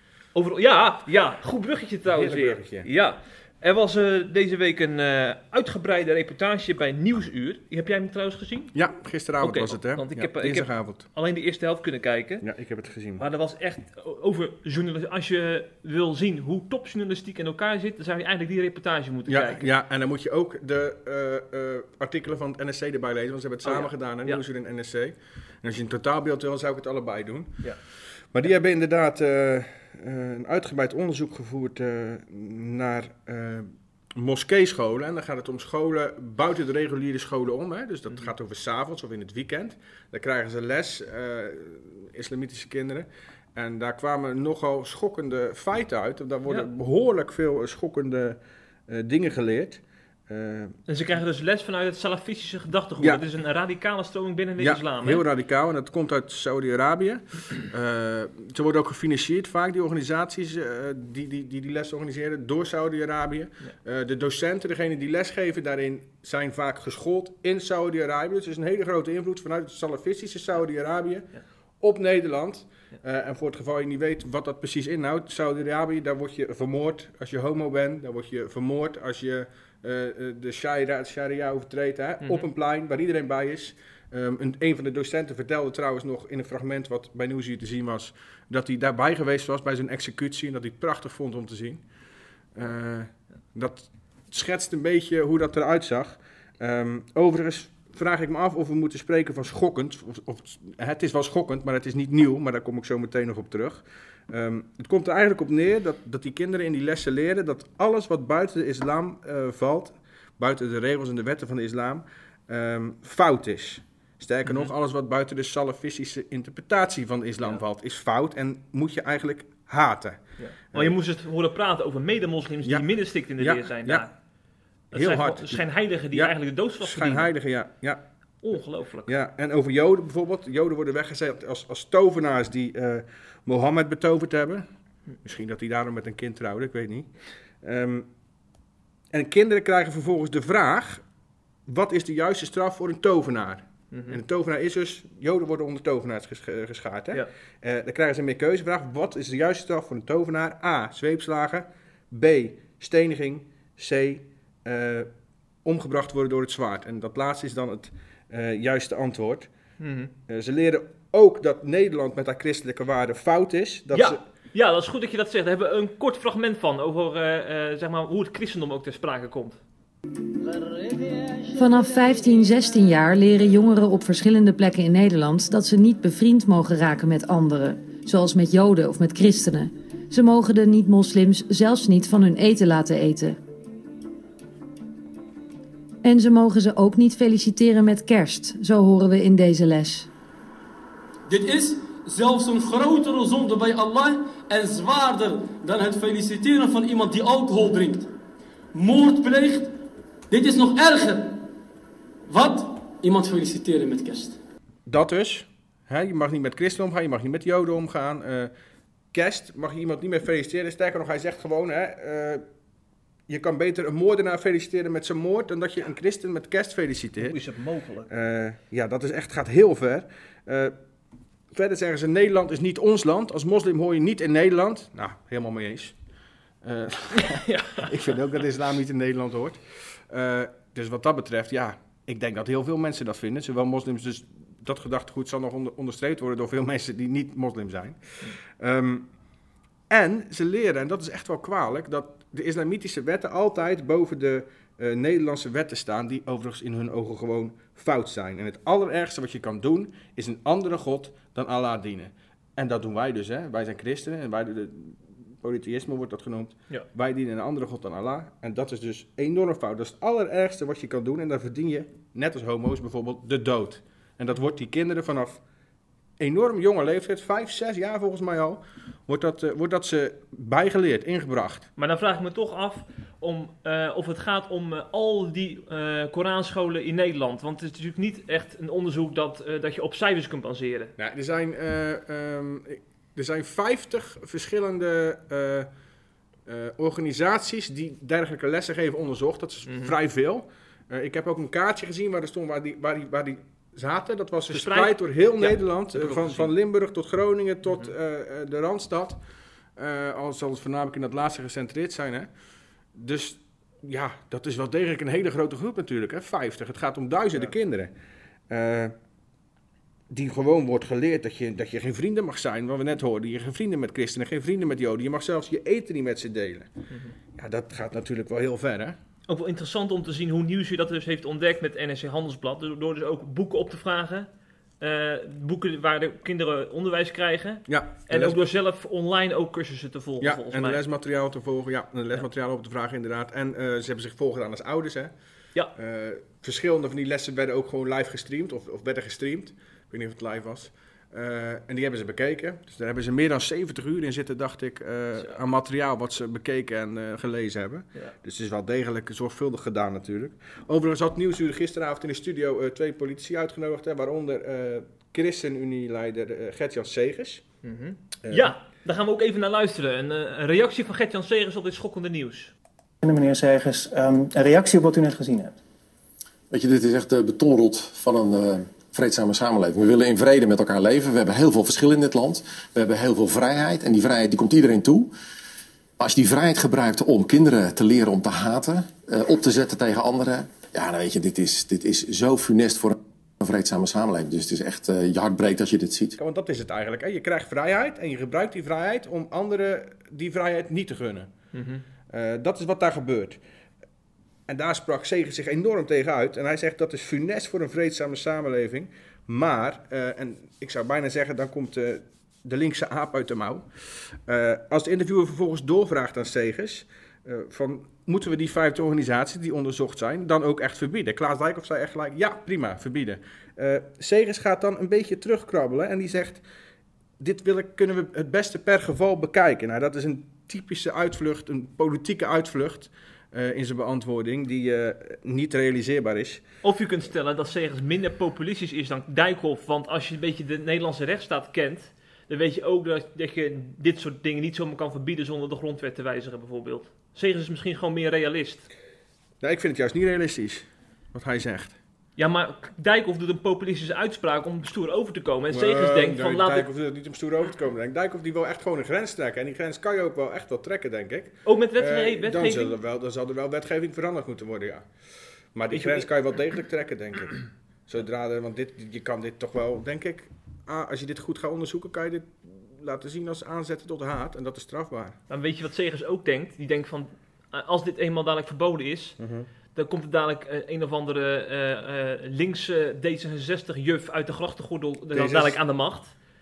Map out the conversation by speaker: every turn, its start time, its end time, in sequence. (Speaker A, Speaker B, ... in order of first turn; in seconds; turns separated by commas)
Speaker A: 0.3-8.7, Speaker B: 2.1-2.9, Speaker B: 8.7-11.1, Speaker A: 9.4-12.4, Speaker B: 12.4-13.2, Speaker A: 13.2-19.7, Speaker B: 19.3-27.6, Speaker A: 23.6-24.4, Speaker B: 28.3-50.8, Speaker A: 50.9-55.2, Speaker B: 54.6-91.8, Speaker B: 92.5-120.2, Speaker A: 120.4-124.1, Speaker B: 122.7-124.1, Speaker B: 124.9-128.0, Speaker A: 124.9-127.3, Speaker A: 128.4-129.1, Speaker B: 129.1-134.7, Speaker B: 135.2-138.1, Speaker B: 139.1-141.0, Speaker B: 141.7-155.1, Speaker A: 143.9-144.2, Speaker B: 155.7-159.5, Speaker A: 159.8-160.1, Speaker B: 160.3-164.2, Speaker A: 163.9-169.6, Speaker C: 171.5-183.4, Speaker C: 186.0-190.1, Speaker D: 191.3-198.1, Speaker D: 198.7-199.7, Speaker D: 200.3-201.4, Speaker D: 202.3-204.4, Speaker B: 204.9-208.5, Speaker B: 209.1-212.4, Speaker B: 213.3-217.4, Speaker A: 217.2-218.1, Speaker B: 218.1-220.8, Speaker B: 221.5-226.0, Speaker B: 226.6-239.1, Speaker A: 227.1-228.2, Speaker B: 239.9-265.4, Speaker B: 266.2-271.7, Speaker A: 271.8-280.9, Speaker B: 281.0-285.7, Speaker B: 286.5-299.2, Speaker A: 289.7-289.9, Speaker A: 294.5-296.5, Speaker B: 299.8-302.3, Speaker B: 302.9-307.9, Speaker B: 308.5-308.9, Speaker B: 310.1-316.7, Speaker B: 317.4-319.0, Speaker A: 319.3-324.3, Speaker A: 324.8-330.8, Speaker B: 327.7-328.4, Speaker B: 330.2-335.1, Speaker B: 335.8-357.4, Speaker A: 357.6-362.5, Speaker B: 358.2-358.5, Speaker E: 363.0-365.6, Speaker F: 366.5-375.1, Speaker F: 376.0-386.2, Speaker B: 386.2-391.3, Speaker A: 391.5-391.8, Speaker B: 392.1-393.4, Speaker B: 394.5-403.7, Speaker B: 404.3-416.4, Speaker B: 417.2-426.4, Speaker A: 426.6-438.7, Speaker B: 439.4-441.8, Speaker A: 442.2-446.7, Speaker B: 445.5-454.9, Speaker A: 451.4-452.8, Speaker B: 455.6-465.2, Speaker A: 455.7-456.1, Speaker A: 465.3-469.2, Speaker B: 469.2-469.5, Speaker A: 469.8-476.1, Speaker B: 475.1-475.6